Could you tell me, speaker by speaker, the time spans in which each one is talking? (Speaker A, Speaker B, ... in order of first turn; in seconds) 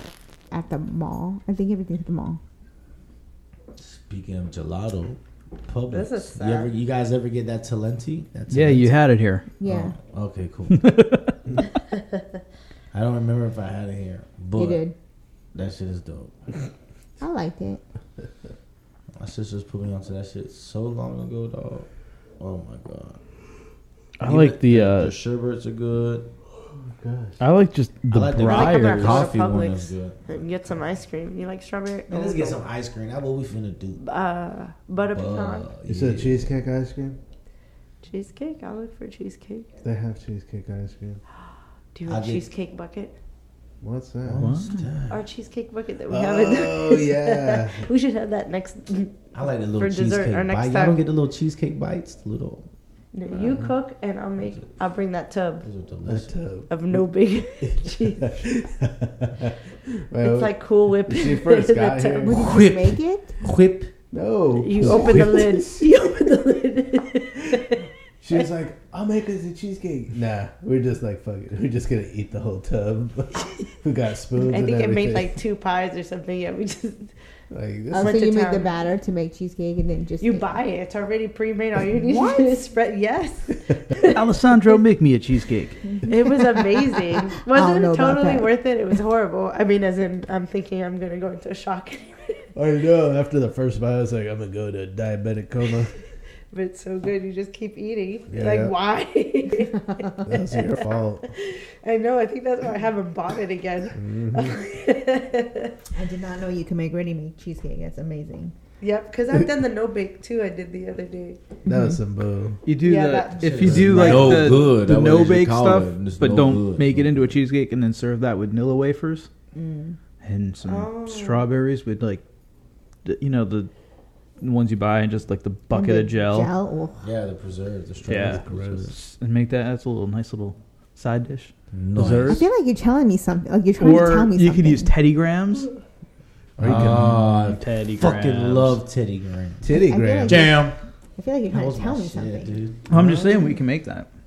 Speaker A: 0.5-2.4, 9.6-10.0, 14.5-14.9, 17.2-17.8, 62.2-63.4, 77.9-80.6, 81.9-82.6, 87.5-88.5, 105.9-108.5, 111.7-112.0, 119.5-120.0, 125.7-127.0, 132.3-134.9, 139.7-142.6
Speaker B: 3.8-8.9, 9.6-10.9, 12.9-14.8, 15.5-16.6, 19.1-21.9, 22.4-23.2, 24.2-26.3, 28.1-30.8, 32.1-34.0, 35.1-36.5, 42.1-42.5, 44.2-45.2, 49.3-52.7, 55.6-56.4, 62.4-63.9, 113.4-117.3, 127.0-128.9, 131.7-132.4, 136.6-140.8, 141.5-143.2
Speaker C: 5.9-6.7, 28.4-32.6, 34.0-35.8, 38.0-39.7, 41.9-43.1, 45.1-49.2, 49.7-51.0, 53.1-55.7, 56.7-58.2, 60.2-62.3, 64.6-68.5, 74.4-77.1, 77.9-78.7, 80.2-84.2, 86.1-92.5, 96.5-105.7, 108.8-111.4, 112.8-114.1, 120.6-121.5
Speaker D: 8.5-9.4, 10.8-11.3, 24.2-25.1, 27.4-29.2, 44.4-44.8, 84.1-85.8, 112.6-119.3, 120.2-122.2, 123.0-123.7, 124.4-126.5, 128.1-132.4, 133.8-135.7, 136.6-138.8, 142.9-144.1
Speaker E: 27.0-27.4, 35.8-37.2, 39.8-41.2, 43.8-44.5, 46.1-47.9, 53.4-53.7, 56.0-57.0, 57.8-59.5, 60.1-62.4, 64.1-65.8, 68.2-75.4, 77.5-78.2, 92.5-95.9, 98.3-98.7, 100.3-101.3, 104.0-104.6, 111.7-112.6, 113.6-114.7, 128.2-128.9, 136.6-137.2, 139.6-140.6